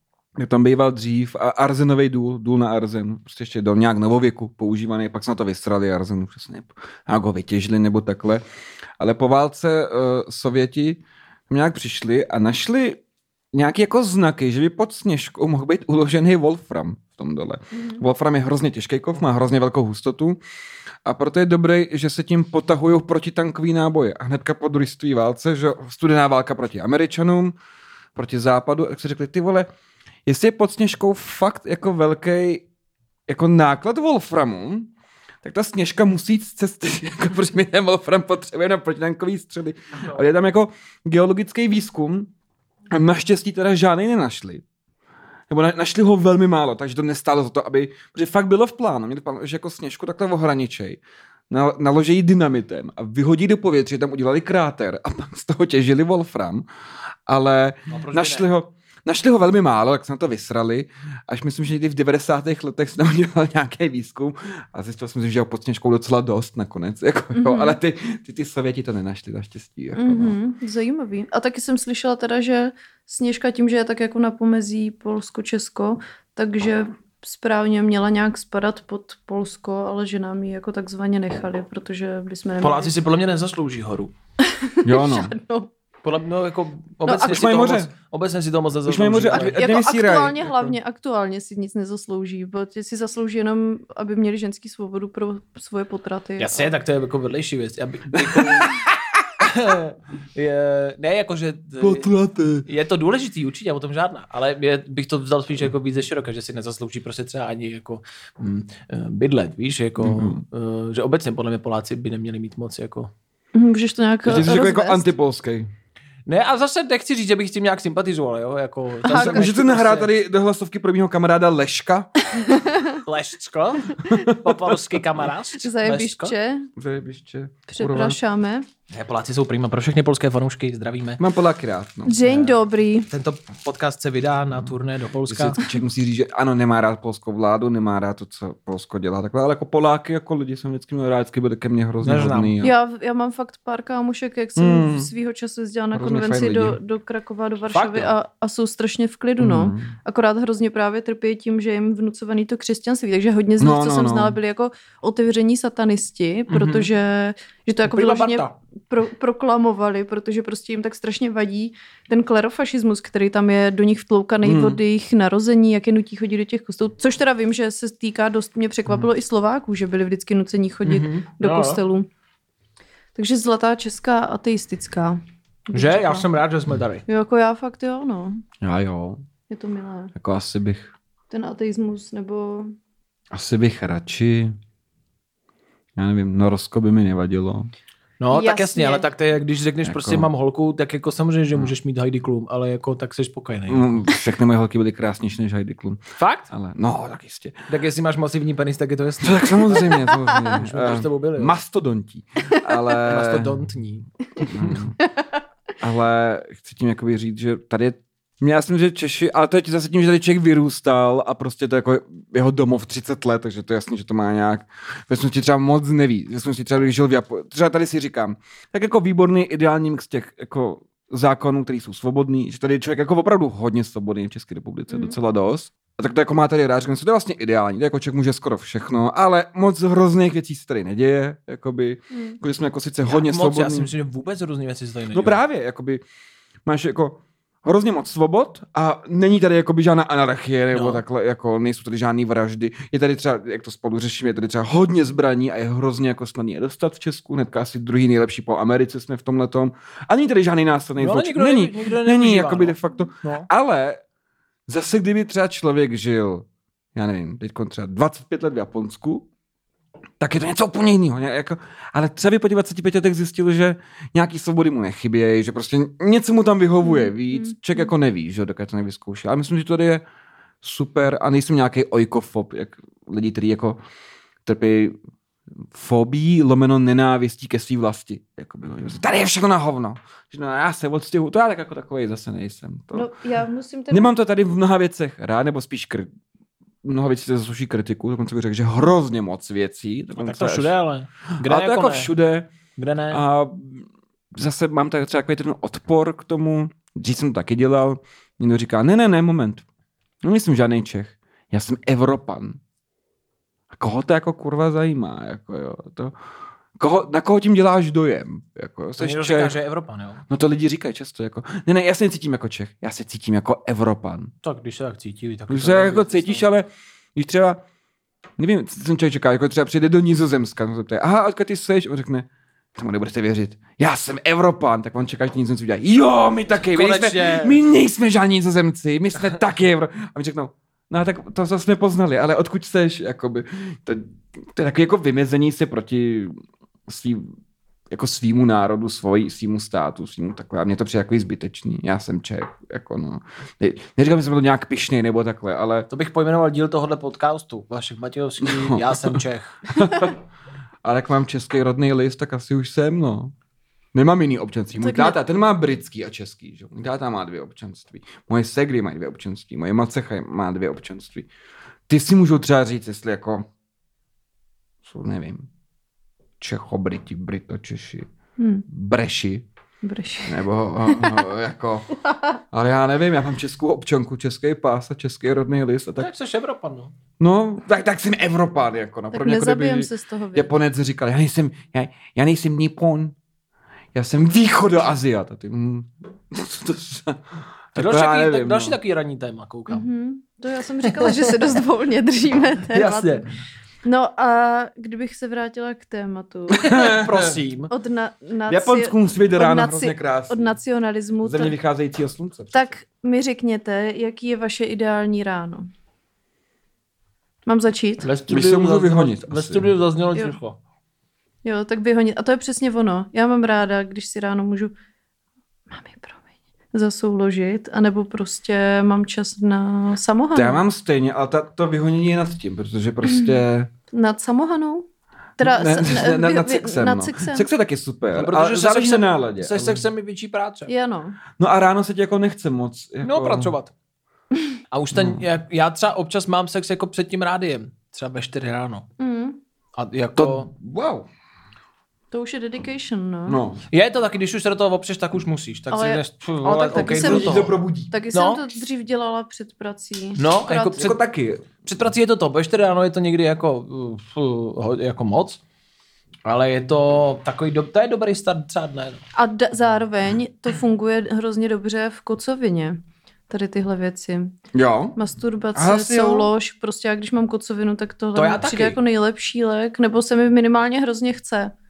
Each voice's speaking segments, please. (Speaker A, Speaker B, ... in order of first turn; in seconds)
Speaker A: 0.4-8.4, 9.0-13.0, 13.5-20.4, 21.1-27.6, 28.1-29.7, 30.3-32.6, 33.3-34.9, 35.4-42.3, 42.9-44.6, 45.5-56.7, 57.3-70.4, 84.8-85.3, 87.2-87.9, 88.9-90.8, 98.1-98.8, 101.8-102.7, 110.0-110.4, 114.3-115.7, 119.1-122.1, 124.0-125.0, 126.8-128.2, 131.2-132.3, 135.3-142.7, 144.6-145.1, 145.9-146.8, 149.4-149.9, 153.6-154.4, 164.4-164.8, 178.6-179.2, 180.2-180.9, 183.3-184.6, 186.0-187.7, 189.8-190.3, 193.7-197.7, 199.2-203.6, 204.4-205.0, 205.8-233.9, 235.1-236.0, 236.7-254.0, 254.7-259.3, 260.2-270.0, 270.6-273.8, 274.4-275.0, 275.7-283.1, 283.9-286.1, 286.8-290.7, 291.4-292.5, 293.1-299.6, 300.2-302.6, 303.8-306.1, 306.8-309.6, 310.3-314.3, 315.5-317.6, 318.4-336.3, 336.9-337.3, 337.9-345.9, 348.4-350.2, 350.8-353.3, 353.9-361.3, 361.9-363.5, 364.8-365.5, 366.4-368.1, 368.7-369.4, 370.2-372.0, 372.5-376.1, 377.2-383.1, 383.9-387.2, 387.7-388.8, 396.5-397.4, 398.5-400.6, 401.2-402.7, 408.3-409.8, 420.4-423.7, 425.4-429.9, 431.4-433.5, 434.9-435.2, 440.2-441.1, 443.3-443.6, 446.8-447.9, 450.8-451.5, 464.5-465.0, 465.6-466.3
Speaker B: 17.7-18.0, 67.3-67.8, 70.0-83.0, 84.4-85.7, 87.0-87.4, 89.5-96.7, 113.5-115.1, 119.0-119.5, 122.3-123.0, 125.6-126.7, 127.7-128.7, 132.1-133.1, 142.6-172.1, 173.2-176.3, 177.1-178.4, 179.5-180.1, 181.3-182.8, 188.3-189.1, 200.1-200.4, 205.1-205.4, 224.9-225.2, 232.1-232.4, 266.8-267.9, 282.9-284.1, 354.8-355.2, 368.4-368.7, 369.8-371.2, 379.1-380.5, 389.7-393.3, 393.8-396.9, 397.7-401.6, 402.5-405.7, 407.5-408.1, 411.4-414.7, 415.7-416.2, 416.7-420.6, 423.1-423.4, 423.9-424.9, 425.4-427.5, 430.7-431.2, 439.0-439.4, 442.1-443.4, 445.7-450.9, 459.1-464.4, 464.9-471.5
Speaker C: 57.9-58.5, 82.6-84.1, 86.0-89.6, 96.4-98.8, 99.4-102.1, 102.7-113.1, 116.3-120.1, 123.0-126.3, 128.9-131.2, 132.2-132.6, 133.1-135.6, 142.0-142.6, 147.7-148.1, 156.5-156.9, 157.9-158.5, 170.8-171.8, 175.7-177.1, 188.2-194.0, 196.2-196.5, 197.7-201.6, 203.1-204.8, 233.1-235.4, 240.7-241.0, 251.0-253.5, 290.2-292.1, 292.8-293.2, 309.0-310.2, 314.4-316.4, 326.6-327.6, 345.9-349.7, 376.0-376.9, 387.8-389.9, 390.8-391.6, 392.7-393.3, 396.6-397.7, 408.0-410.6, 428.1-430.7, 433.0-433.7, 434.7-438.9, 439.8-440.5, 443.7-447.5, 448.1-448.4, 450.2-451.0, 451.6-455.4, 456.2-459.0, 468.1-468.8